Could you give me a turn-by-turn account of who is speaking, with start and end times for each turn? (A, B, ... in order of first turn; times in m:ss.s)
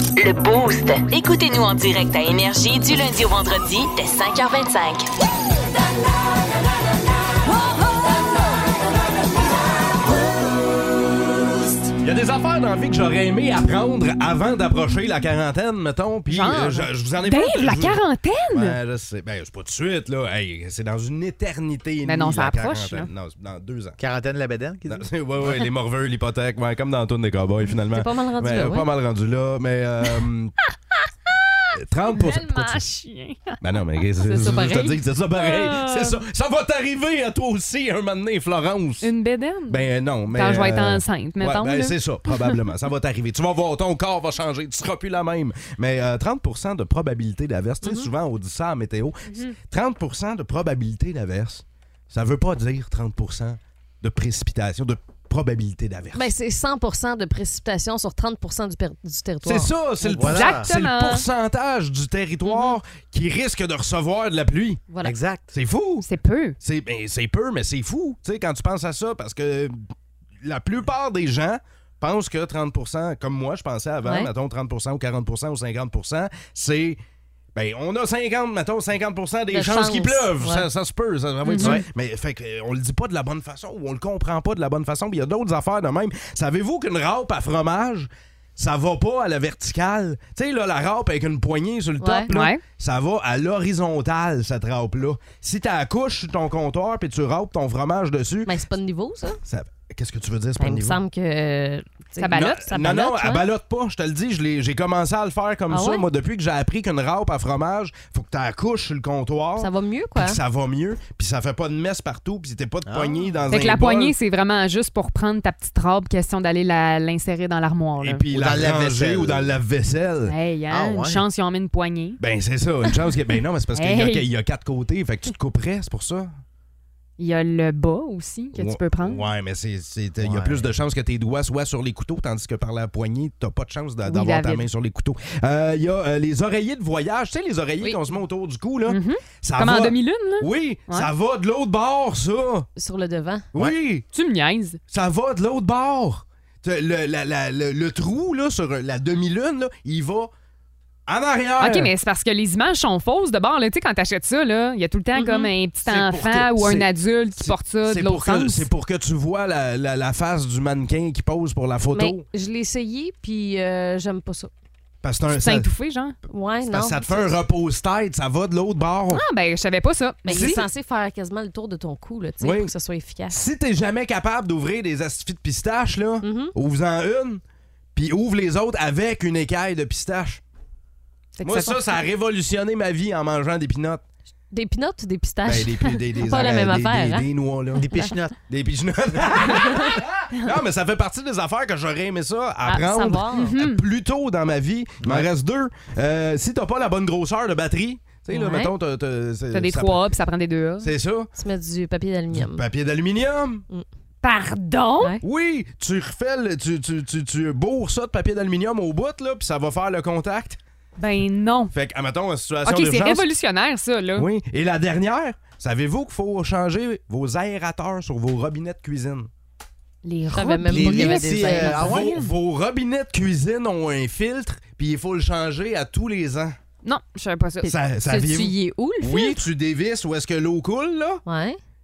0:00.2-0:05.0 A
0:12.0-0:24.0 B
0:16.3-0:18.8 C
0:22.0-0:23.1 C
0:24.0-0:25.6 D
0:24.9-0:30.5 B
0:27.9-0:28.9 E
0:31.8-0:32.8 B
0:32.1-0:33.6 C
0:33.6-0:39.1 B
0:34.2-0:36.1 E
0:39.0-0:42.4 C
0:39.7-0:56.2 B
0:47.8-0:48.1 E
0:49.3-0:49.5 C
0:56.1-1:00.1 E
0:59.4-1:04.8 B
1:00.2-1:00.7 D
1:00.2-1:01.3 C
1:02.4-1:02.8 C
1:05.0-1:05.5 D
1:05.5-1:06.0 B
1:06.0-1:06.6 C
1:06.6-1:09.8 B
1:10.4-1:17.0 B
1:17.5-1:38.5 B
1:19.5-1:20.6 E
1:21.5-1:21.8 C
1:21.6-1:21.8 D
1:32.0-1:32.3 E
1:32.3-1:32.6 C
1:38.4-1:39.4 E
1:39.4-1:41.0 B
1:40.6-1:43.4 E
1:42.2-1:42.7 C
1:42.3-1:54.1 B
1:45.7-1:46.0 E
1:49.6-1:50.4 E
1:52.8-1:53.4 D
1:53.5-1:58.2 C
1:58.0-2:00.3 B
1:58.3-1:59.6 D
2:00.2-2:02.2 C
2:00.7-2:01.2 D
2:02.2-2:06.3 B
2:03.7-2:04.2 C
2:07.2-2:09.2 C
2:08.5-2:22.7 B
2:10.2-2:10.7 D
2:14.0-2:14.6 C
2:18.9-2:21.1 C
2:22.8-2:23.4 E
2:23.5-2:24.1 B
2:24.1-2:24.8 C
2:24.9-2:30.3 B
2:31.1-2:31.9 B
2:31.6-2:38.7 C
2:35.1-2:35.5 E
2:35.8-2:42.2 B
2:41.9-2:44.5 E
2:45.0-2:45.7 B
2:45.3-2:46.2 C
2:46.3-2:47.4 E
2:46.6-2:49.2 B
2:49.1-2:50.6 C
2:50.2-2:53.4 E
2:50.3-2:50.6 B
2:52.4-2:52.7 B
2:53.3-2:57.4 B
2:56.2-2:56.5 E
2:57.9-3:00.4 B
3:01.4-3:01.8 C
3:01.4-3:04.0 B
3:04.5-3:07.3 E
3:05.4-3:07.8 B
3:07.8-3:08.4 D
3:08.5-3:20.1 B
3:09.1-3:09.4 D
3:12.6-3:13.5 E
3:13.4-3:13.8 C
3:15.0-3:15.3 D
3:18.3-3:18.7 E
3:19.5-3:20.9 C
3:20.8-3:21.3 B
3:21.4-3:22.6 E
3:22.3-3:23.6 B
3:24.2-3:25.1 C
3:25.2-3:30.6 B
3:31.0-3:31.7 C
3:31.7-3:33.3 B
3:32.6-3:34.3 C
3:34.2-3:39.3 B
3:40.0-3:42.3 C
3:40.3-3:41.9 E
3:40.6-3:42.2 D
3:41.8-3:46.6 B
3:46.8-3:49.4 C
3:47.6-3:51.2 B
3:51.2-3:51.6 E